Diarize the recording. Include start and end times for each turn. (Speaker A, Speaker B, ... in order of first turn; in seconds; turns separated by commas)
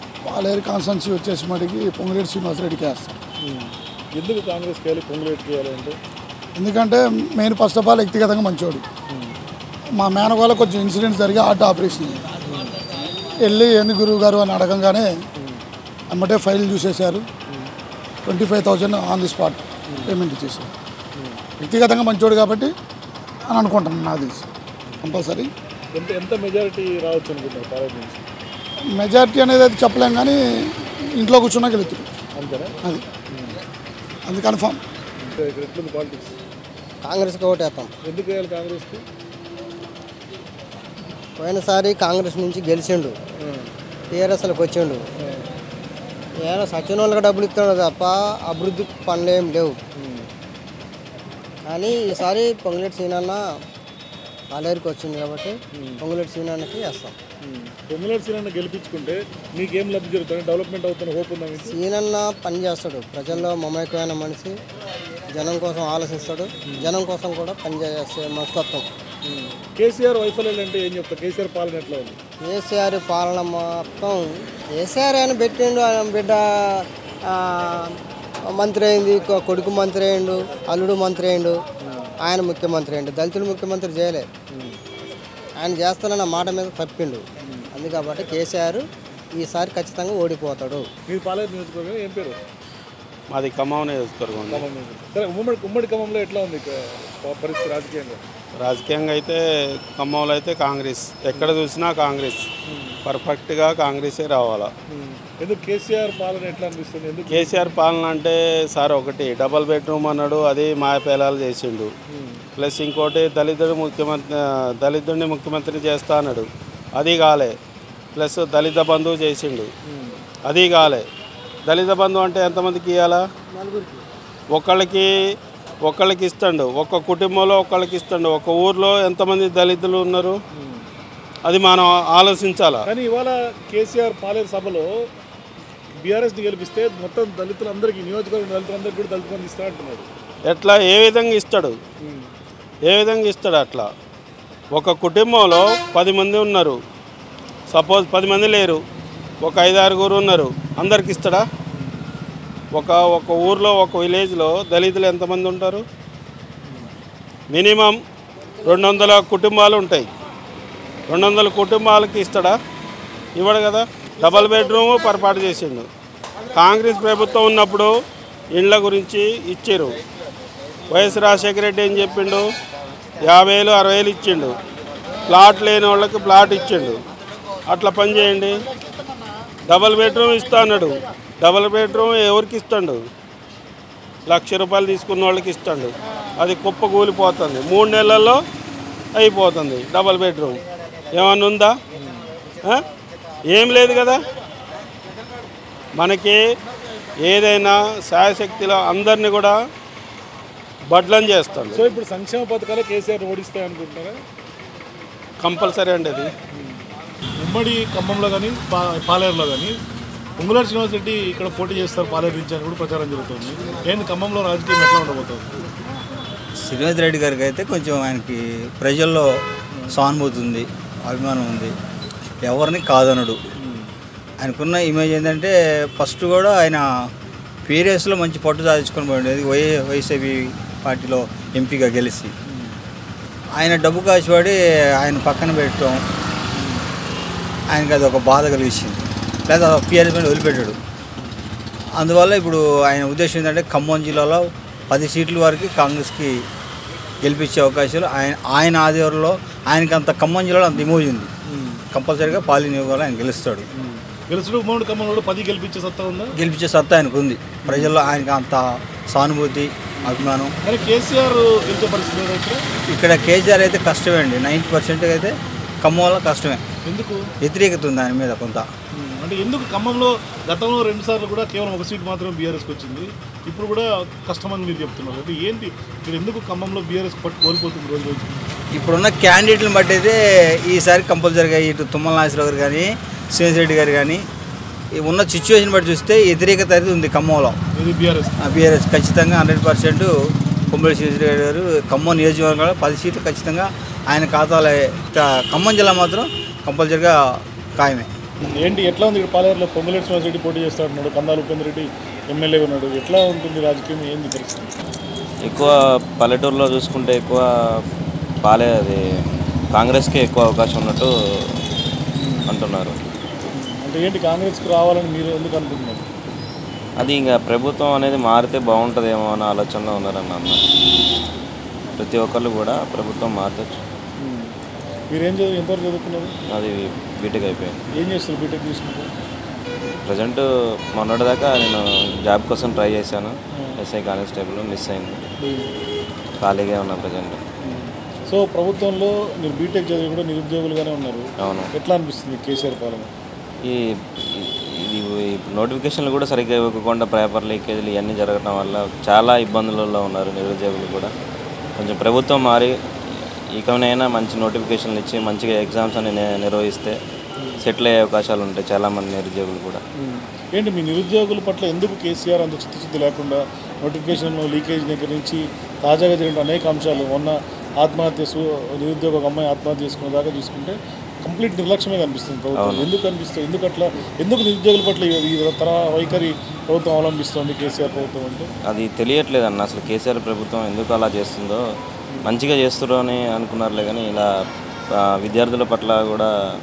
Speaker A: 0.2-3.1, Speaker B: 3.4-6.0, Speaker A: 6.5-8.8, Speaker B: 9.1-9.4, Speaker A: 10.0-12.2, Speaker B: 12.5-12.7, Speaker A: 13.4-15.1, Speaker B: 15.4-15.6, Speaker A: 16.1-17.2, Speaker A: 18.2-20.7, Speaker B: 21.1-21.4, Speaker A: 21.6-22.7, Speaker A: 23.5-24.5, Speaker B: 24.9-25.2, Speaker A: 25.0-25.5, Speaker B: 25.9-28.2, Speaker A: 28.9-32.1, Speaker B: 32.3-32.8, Speaker B: 33.3-33.5, Speaker A: 34.3-34.8, Speaker B: 35.2-36.3, Speaker C: 37.0-37.9, Speaker B: 38.0-39.0, Speaker C: 41.4-43.2, Speaker B: 43.4-43.7, Speaker C: 44.1-45.0, Speaker B: 45.2-45.5, Speaker C: 46.4-49.8, Speaker B: 50.0-50.3, Speaker C: 51.6-53.4, Speaker C: 54.5-57.1, Speaker B: 55.7-56.0, Speaker B: 57.4-61.8, Speaker C: 61.6-64.5, Speaker C: 65.3-68.9, Speaker B: 66.7-66.9, Speaker B: 69.3-72.2, Speaker C: 72.5-77.9, Speaker C: 78.5-81.6, Speaker B: 81.8-82.1, Speaker C: 82.2-84.3, Speaker B: 84.5-84.8, Speaker C: 85.6-88.8, Speaker B: 87.4-87.7, Speaker C: 89.3-90.9, Speaker B: 91.1-92.4, Speaker D: 93.3-94.6, Speaker B: 94.5-98.2, Speaker D: 98.6-99.4, Speaker D: 100.0-102.4, Speaker B: 102.7-103.0, Speaker D: 103.1-104.7, Speaker B: 104.9-107.7, Speaker D: 107.3-111.9, Speaker B: 112.1-112.4, Speaker D: 112.6-117.5, Speaker D: 118.2-119.7, Speaker B: 119.9-120.2, Speaker D: 120.5-121.0, Speaker D: 121.7-123.2, Speaker D: 124.5-125.1, Speaker D: 125.8-130.4, Speaker B: 130.6-130.9, Speaker D: 131.5-132.8, Speaker B: 132.9-134.9, Speaker B: 136.0-140.1, Speaker D: 140.5-141.8, Speaker B: 142.0-142.3, Speaker D: 142.9-143.9, Speaker D: 144.7-146.8, Speaker D: 147.7-148.8, Speaker D: 149.4-151.4, Speaker D: 152.7-155.8, Speaker D: 157.5-158.0, Speaker D: 158.6-160.1, Speaker D: 161.1-162.6, Speaker D: 163.4-165.9, Speaker D: 166.6-167.9, Speaker D: 168.6-170.0, Speaker D: 170.9-172.4, Speaker D: 173.2-174.6, Speaker D: 175.3-177.0, Speaker D: 177.7-178.6, Speaker D: 179.7-183.0, Speaker D: 184.3-188.4, Speaker D: 189.1-190.6, Speaker D: 191.1-191.8, Speaker D: 193.5-194.2, Speaker D: 196.0-196.4, Speaker D: 197.2-199.6, Speaker D: 200.9-201.8, Speaker B: 201.8-204.2, Speaker D: 205.4-206.3, Speaker B: 206.5-206.8, Speaker B: 207.4-209.8, Speaker B: 210.4-215.6, Speaker E: 216.6-219.3, Speaker E: 219.9-221.7, Speaker E: 222.5-223.4, Speaker B: 223.6-223.9, Speaker E: 224.4-226.8, Speaker E: 227.6-232.3, Speaker B: 232.5-232.8, Speaker E: 233.6-236.0, Speaker B: 236.5-236.8, Speaker E: 237.7-240.8, Speaker E: 242.0-246.3, Speaker E: 247.2-251.3, Speaker B: 251.5-251.8, Speaker E: 251.9-253.7, Speaker B: 253.8-256.3, Speaker E: 256.4-260.5, Speaker B: 260.6-262.6, Speaker E: 262.9-266.6, Speaker B: 266.8-267.3, Speaker E: 267.4-268.7, Speaker B: 268.9-278.5, Speaker E: 278.7-284.2, Speaker E: 285.0-287.6, Speaker B: 287.7-288.3, Speaker E: 288.4-290.1, Speaker E: 290.7-297.2, Speaker E: 297.8-298.1, Speaker B: 298.4-304.7, Speaker F: 305.4-307.4, Speaker F: 308.4-309.0, Speaker F: 309.7-311.1, Speaker F: 312.5-312.9, Speaker B: 313.5-316.1, Speaker F: 317.0-320.6, Speaker F: 322.0-323.8, Speaker B: 324.2-324.5, Speaker B: 325.1-326.3, Speaker F: 326.5-327.8, Speaker B: 328.0-329.1, Speaker F: 330.0-335.3, Speaker B: 335.4-335.8, Speaker F: 336.4-337.4, Speaker B: 337.6-343.1, Speaker F: 341.4-341.7, Speaker F: 344.4-351.1, Speaker F: 351.8-357.0, Speaker F: 357.6-359.8, Speaker B: 360.0-378.5, Speaker F: 372.5-372.9, Speaker F: 378.7-381.6, Speaker F: 382.2-384.3, Speaker F: 384.9-386.3